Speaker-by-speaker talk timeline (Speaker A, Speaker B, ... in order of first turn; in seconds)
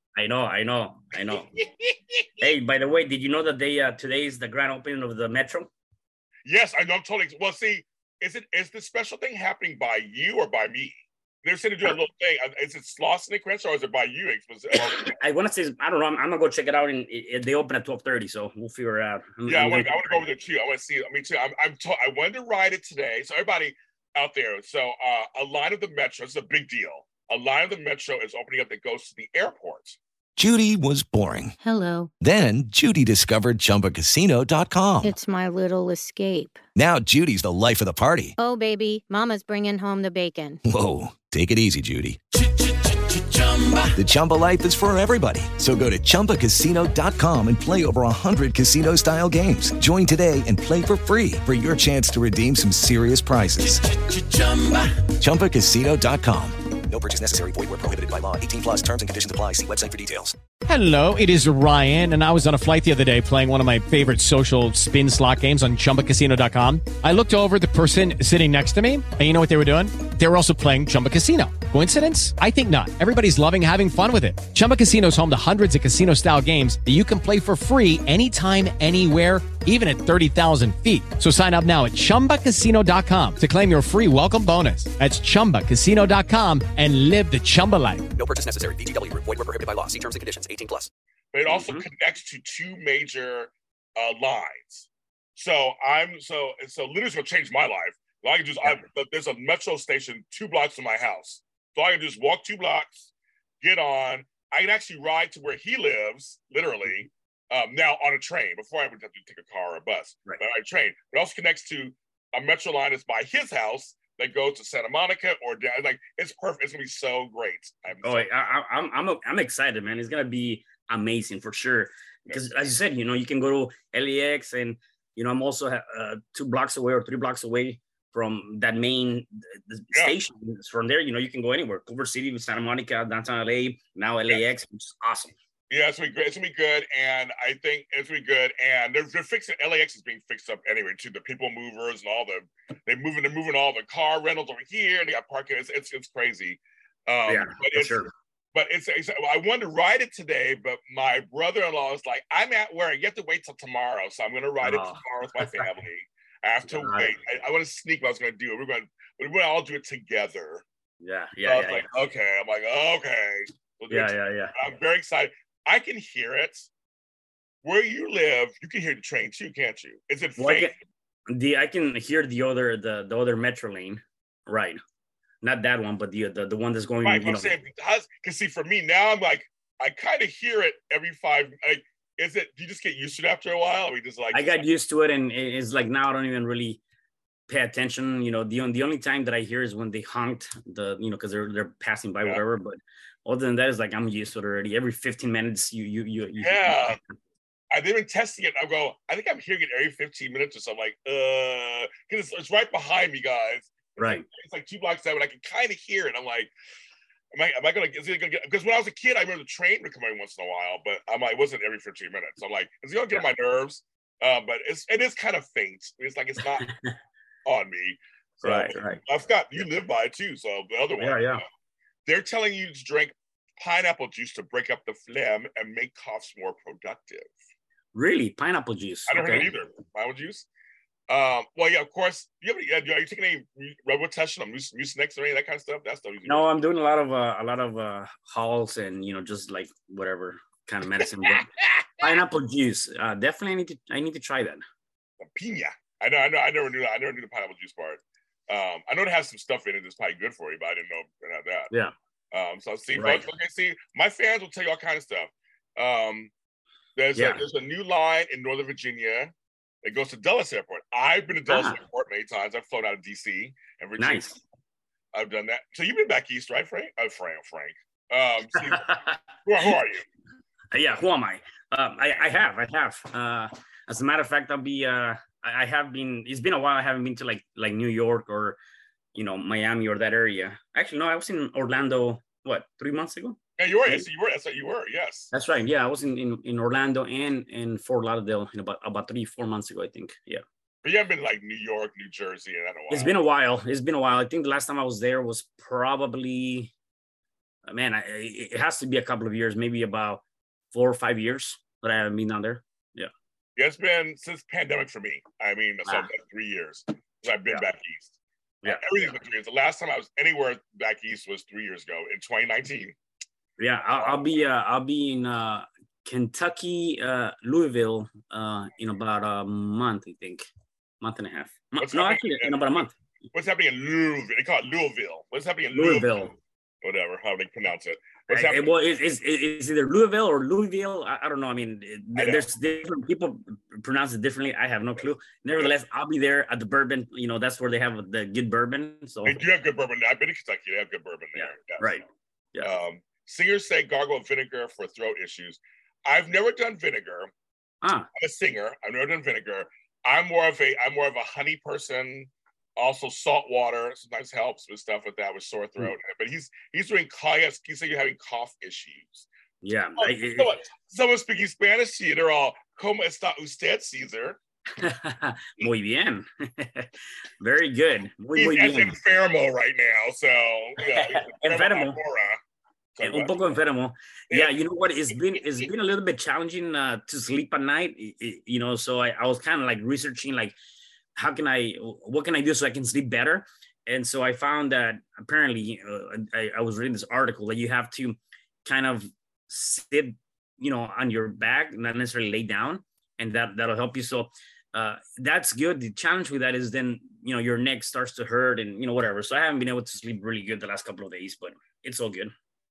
Speaker A: 0.2-1.5, 2.4-5.7, 14.7-20.3, 91.5-91.8, 118.0-135.3, 147.3-148.1, 154.6-155.7, 156.7-157.2, 161.0-161.9, 163.9-164.5, 170.4-170.8, 171.3-174.8, 175.4-177.5, 184.3-186.8, 187.5-197.0, 204.0-204.2, 216.6-216.9, 218.4-219.0, 221.0-221.4, 227.9-229.5, 236.2-241.5, 242.0-244.6, 252.9-253.3, 257.1-257.4, 261.5-261.8, 264.0-264.4, 268.6-269.2, 270.7-278.6, 279.1-284.1, 285.3-290.4, 292.9-296.7, 297.6-303.1, 308.6-309.1, 313.6-320.4, 321.0-322.9, 325.7-326.3, 328.3-339.4, 341.3-342.7, 347.8-348.1, 359.6-360.5, 364.8-368.9, 370.8-372.0, 373.0-380.5, 381.1-402.3
Speaker B: 1.3-2.5, 6.4-15.2, 19.4-30.0, 91.3-118.3, 135.7-160.6, 161.4-166.7, 167.6-170.7, 177.0-184.7, 196.4-197.0, 197.7-206.5, 207.3-216.7, 217.4-221.4, 222.1-227.3, 229.1-230.4, 231.1-236.5, 241.2-242.1, 245.2-251.7, 252.3-256.3, 256.9-264.2, 265.1-268.9, 269.4-270.0, 283.6-285.3, 290.8-293.2, 303.6-308.1, 308.6-312.9, 313.9-314.4, 321.8-326.2, 326.8-328.7, 332.1-332.5, 339.2-341.9, 342.6-347.3, 348.1-359.3, 360.0-364.4, 368.3-372.4, 372.9-373.4, 374.3-375.7
Speaker C: 30.4-31.6, 32.2-35.1, 36.7-38.3, 40.6-42.2, 43.9-54.0, 55.0-56.7
Speaker D: 31.6-32.1, 35.0-36.6, 38.4-40.6
Speaker E: 56.8-60.3, 88.1-90.9
Speaker F: 60.6-88.0